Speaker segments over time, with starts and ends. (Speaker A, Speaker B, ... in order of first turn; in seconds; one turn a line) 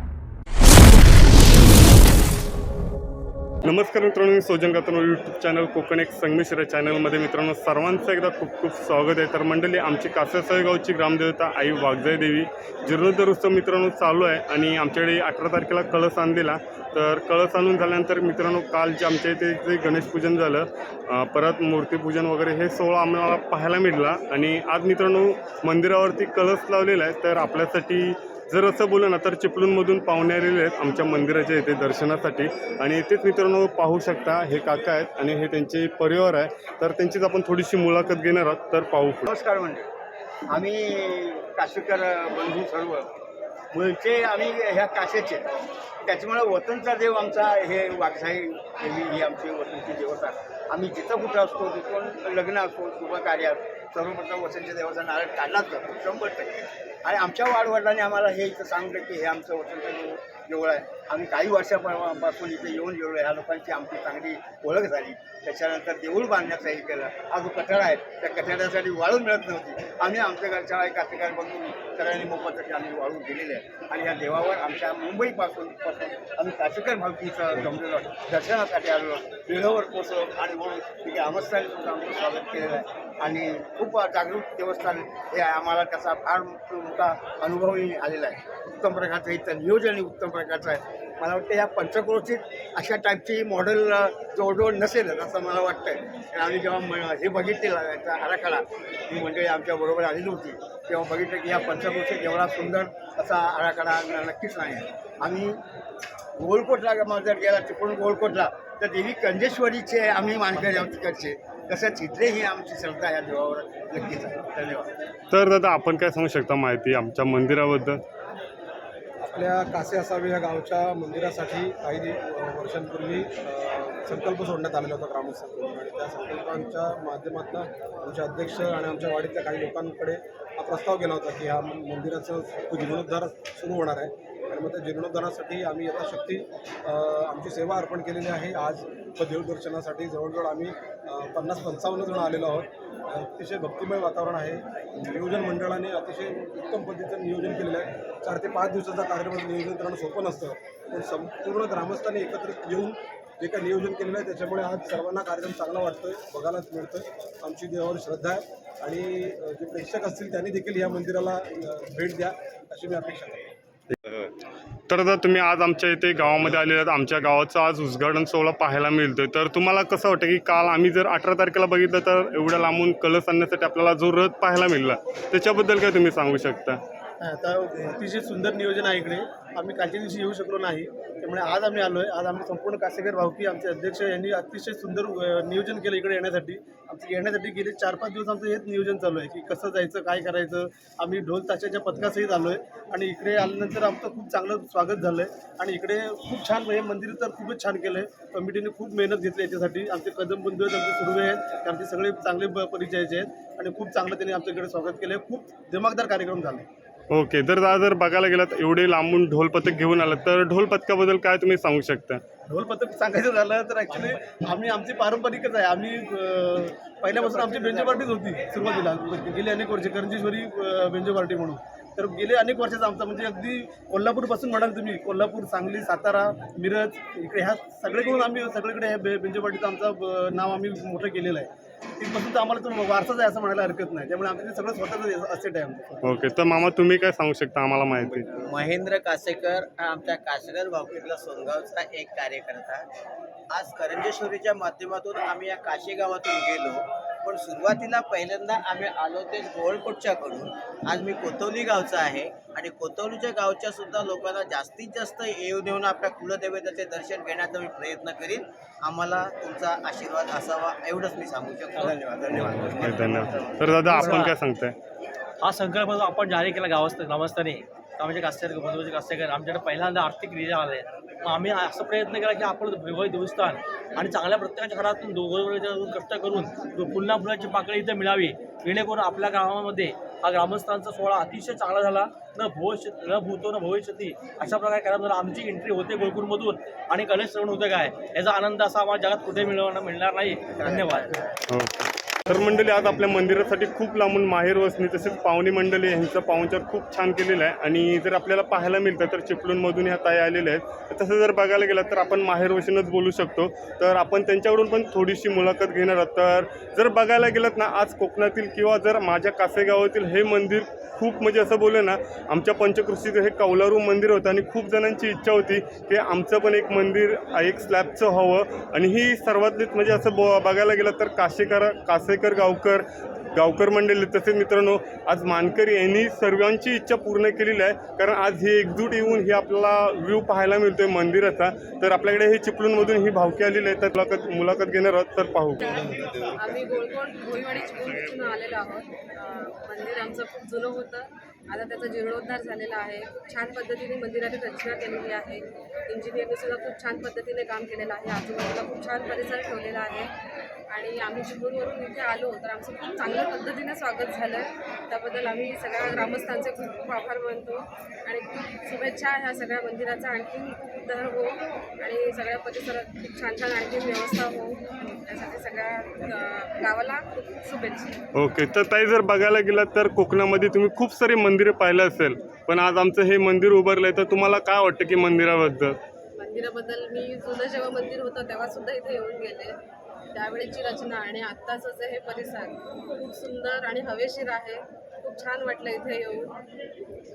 Speaker A: 3.6-39.3
Speaker B: 39.3-39.9
Speaker B: 40.5-43.1
Speaker B: 43.7-45.4
Speaker B: 46.0-105.6
Speaker B: 106.4-114.9
Speaker A: 115.3-118.0
Speaker C: 119.2-163.5
Speaker A: 163.9-164.3
Speaker A: 164.9-176.8
Speaker D: 177.2-206.6
Speaker A: 207.1-212.2
Speaker D: 212.5-236.0
Speaker E: 213.9-214.2
Speaker E: 217.1-218.2
Speaker A: 236.0-238.3
Speaker F: 238.1-242.9
Speaker F: 243.5-264.1
Speaker B: 262.0-264.2
Speaker A: 262.3-264.8
Speaker E: 263.9-264.3
Speaker E: 265.4-291.1
Speaker B: 290.6-291.3
Speaker A: 291.5-335.7
Speaker G: 335.7-350.1
Speaker G: 350.7-368.0
Speaker A: 368.1-375.8
Speaker G: 376.2-379.6
Speaker G: 380.1-386.4